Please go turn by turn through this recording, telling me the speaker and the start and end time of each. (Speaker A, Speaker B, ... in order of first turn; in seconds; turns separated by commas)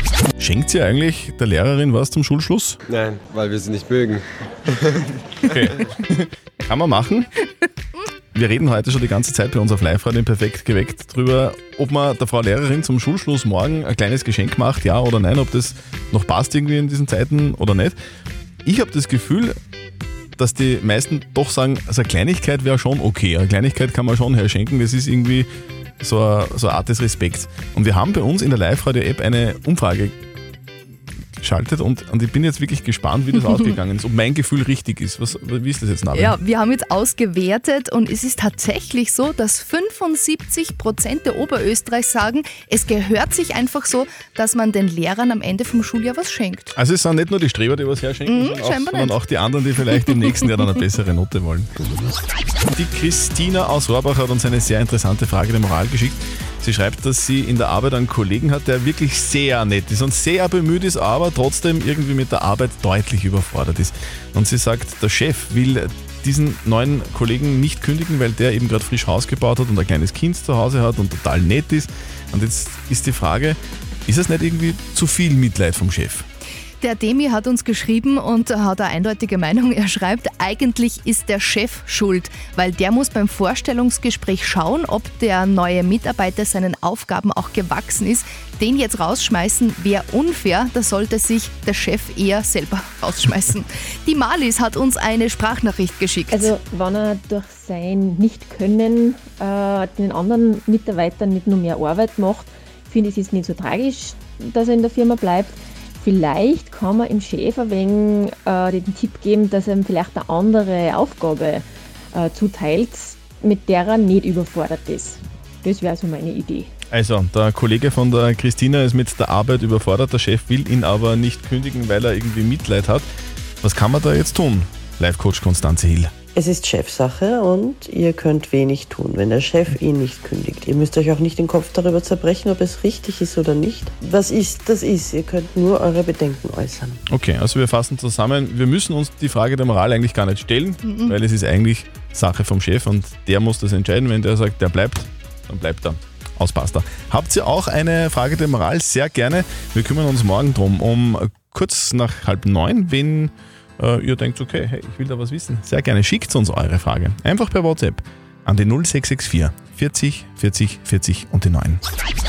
Speaker A: 0.4-2.8, Speaker B: 2.9-5.2, Speaker A: 5.4-7.3, Speaker A: 8.3-18.0, Speaker A: 18.6-19.6, Speaker A: 20.4-25.5, Speaker A: 26.0-30.2, Speaker A: 31.4-36.4, Speaker C: 36.1-46.7, Speaker A: 46.8-51.7, Speaker C: 48.3-49.2, Speaker A: 52.7-76.2, Speaker C: 76.8-96.5, Speaker D: 96.3-116.7, Speaker A: 116.9-123.1, Speaker A: 123.6-126.1, Speaker E: 126.4-136.9, Speaker A: 137.1-161.8, Speaker C: 140.8-141.2